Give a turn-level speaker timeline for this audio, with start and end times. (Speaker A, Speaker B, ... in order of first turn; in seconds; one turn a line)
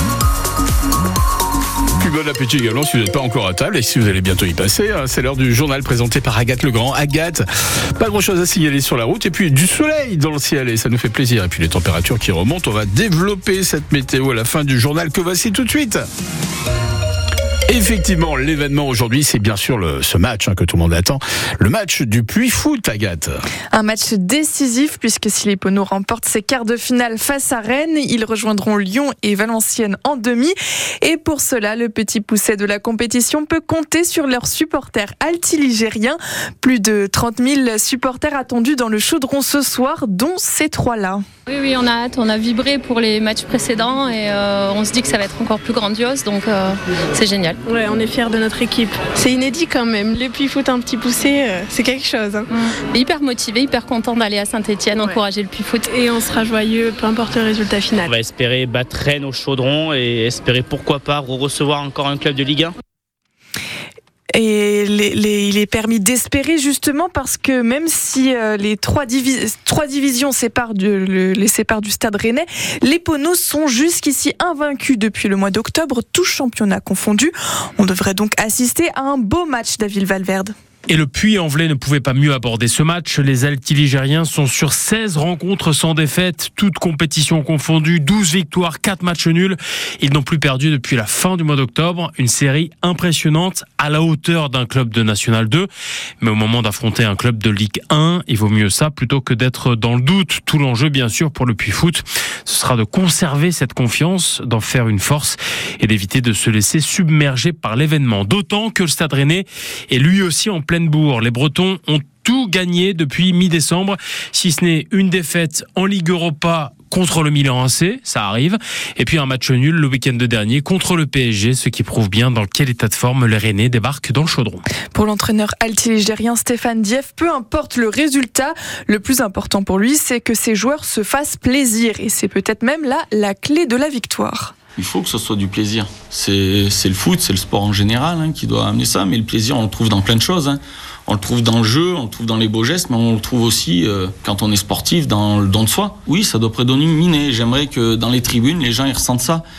Speaker A: 2.0-7.5
Speaker A: 8.0-16.1
Speaker A: 17.7-23.4
Speaker B: 23.7-41.2
Speaker C: 41.5-47.6
Speaker D: 47.7-52.5
Speaker C: 52.5-55.9
Speaker D: 55.9-58.1
Speaker E: 58.0-62.7
Speaker B: 64.3-80.5
Speaker F: 80.9-95.7
Speaker F: 96.2-124.6
Speaker B: 124.9-134.5
Speaker G: 134.8-149.4